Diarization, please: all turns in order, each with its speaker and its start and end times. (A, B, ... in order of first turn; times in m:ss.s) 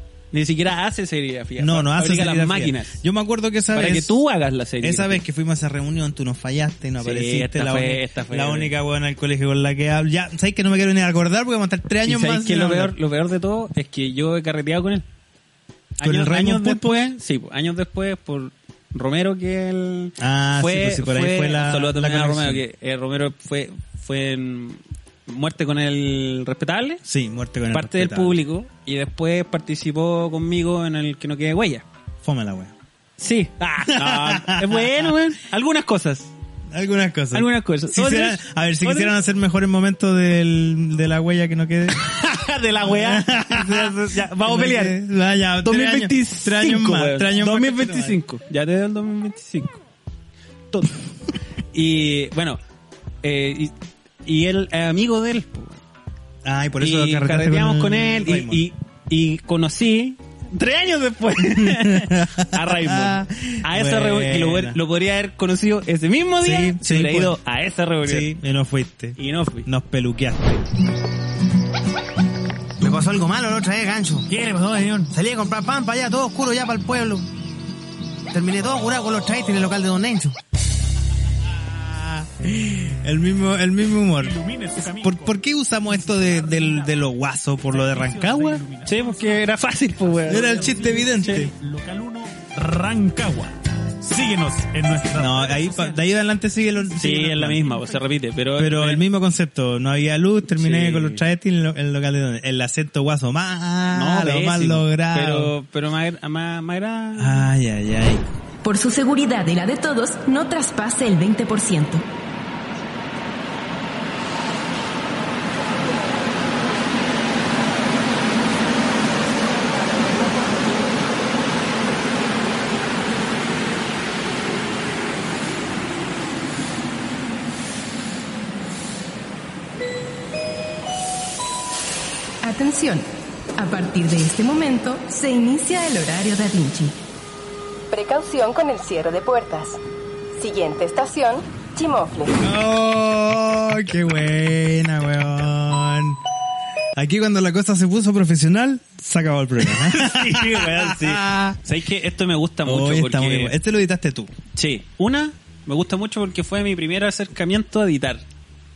0:00.3-0:03.0 A
0:01.6-0:04.2 B
0:03.7-0:05.2 A
0:04.8-0:12.9 B
0:07.0-0:08.7 A
0:12.0-0:15.0 A
0:16.0-0:17.1 B
0:16.0-0:27.0 A
0:20.2-0:22.6 B
0:27.0-0:28.4 B
0:27.7-0:31.8 A
0:32.2-0:32.7 B
0:33.2-0:36.3 A
0:33.8-0:35.1 B
0:36.7-0:42.0 B
0:37.3-0:39.1 A
0:41.9-0:45.0 A
0:42.8-0:48.2 B
0:45.6-0:49.8 A
0:50.7-0:51.0 A
0:51.7-0:52.6 A
0:53.2-0:53.7 A
0:54.2-0:55.8 A
0:56.4-0:58.6 B
0:56.8-1:08.3 A
1:01.4-1:04.8 B
1:06.4-1:07.4 B
1:08.0-1:10.6 B
1:09.2-1:09.7 A
1:12.8-1:14.3 C
1:14.3-1:15.1 A
1:15.1-1:17.2 C
1:18.3-1:20.4 C
1:21.4-1:28.6 B
1:24.2-1:25.4 D
1:26.2-1:26.9 D
1:27.7-1:29.4 D
1:28.8-1:31.5 A
1:30.2-1:31.5 B
1:30.7-1:35.8 D
1:35.1-1:37.9 B
1:37.0-1:39.0 A
1:38.6-1:45.5 B
1:40.6-1:41.2 A
1:43.9-1:47.5 A
1:47.2-1:48.2 B
1:48.6-1:52.0 E
2:12.4-2:17.0 E
2:17.9-2:19.8 E
2:20.4-2:22.5 E
2:22.4-2:26.2 B
2:27.0-2:31.6 B
2:29.6-2:33.5 A
2:32.6-2:34.3 B
2:34.6-2:38.2 A